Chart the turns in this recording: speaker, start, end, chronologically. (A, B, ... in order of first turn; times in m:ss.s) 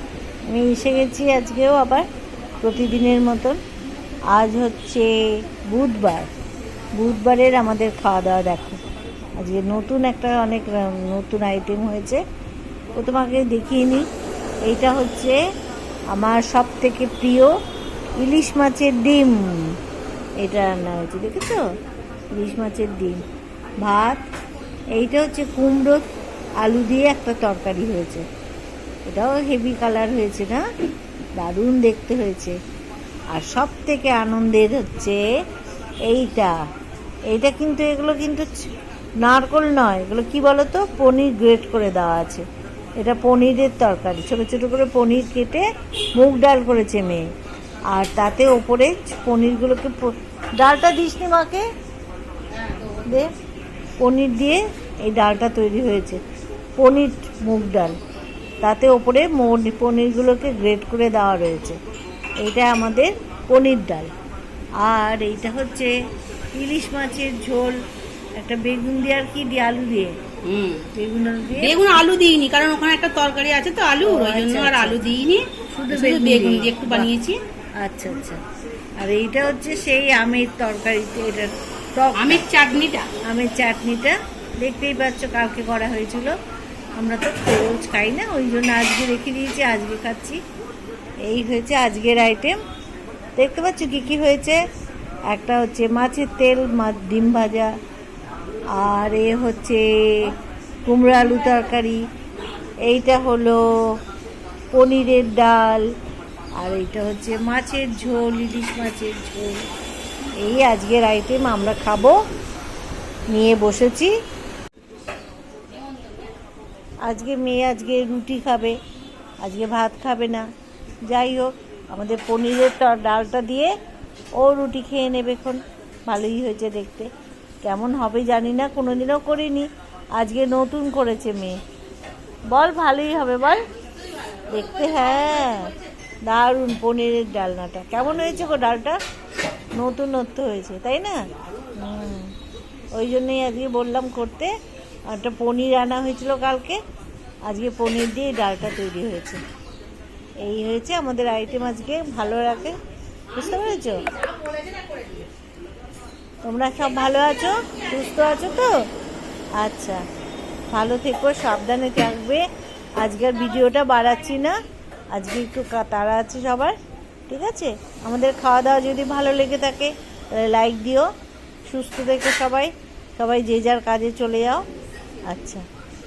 0:00.5-0:02.0 A
0:02.6-0:03.6 A
0:04.3-0:05.1 A
0:05.7-0:06.3 A
0:07.0-0:08.8 A
0:09.4-0:12.2 A
0:13.0-0:14.1 A
0:14.7-0:15.4 A
0:16.1-0:17.5 A
0:18.2-0:19.7 A
0:20.4-0:21.6 A
0:22.3-0:23.2 A
0:23.8-0:24.2 A
0:25.0-0:26.1 A
0:26.6-0:28.3 A
0:29.1-0:30.6 A
0:31.4-0:32.6 A
0:33.3-0:35.2 A
0:36.1-0:36.5 A
0:37.3-0:38.6 A
0:39.2-0:42.4 A
0:43.0-0:45.6 A
0:46.2-0:47.3 A
0:47.9-0:51.6 A
0:53.0-0:53.3 A
0:54.0-0:56.2 A
0:56.8-0:58.0 A
0:58.6-1:01.8 A
1:02.4-1:04.1 A
1:04.8-1:05.9 A
1:06.5-1:07.8 A
1:08.4-1:10.2 A
1:10.4-1:10.9 B
1:10.9-1:12.0 A
1:11.6-1:17.4 B
1:14.0-1:15.1 A
1:15.7-1:17.1 A
1:17.8-1:18.4 A
1:19.0-1:22.4 A
1:22.2-1:23.1 B
1:23.2-1:26.4 A
1:27.0-1:30.4 A
1:31.2-1:32.6 A
1:33.4-1:34.6 A
1:35.3-1:37.7 A
1:38.7-1:40.3 A
1:40.9-1:42.0 A
1:42.9-1:44.0 A
1:44.7-1:45.9 A
1:46.6-1:49.7 A
1:50.4-1:52.2 A
1:53.3-1:54.1 A
1:57.1-1:58.8 A
1:59.4-2:00.5 A
2:01.1-2:03.7 A
2:04.4-2:07.1 A
2:07.6-2:11.6 A
2:12.5-2:13.6 A
2:14.5-2:15.7 A
2:16.3-2:19.0 A
2:19.7-2:21.3 A
2:21.8-2:22.3 A
2:22.9-2:24.5 A
2:25.1-2:26.8 A
2:27.5-2:29.4 A
2:30.4-2:32.8 A
2:33.3-2:34.1 A
2:36.4-2:38.9 A
2:39.6-2:40.0 A
2:40.7-2:42.5 A
2:43.0-2:44.6 A
2:45.1-2:46.8 A
2:47.3-2:51.1 A
2:51.7-2:54.6 A
2:55.3-2:55.7 A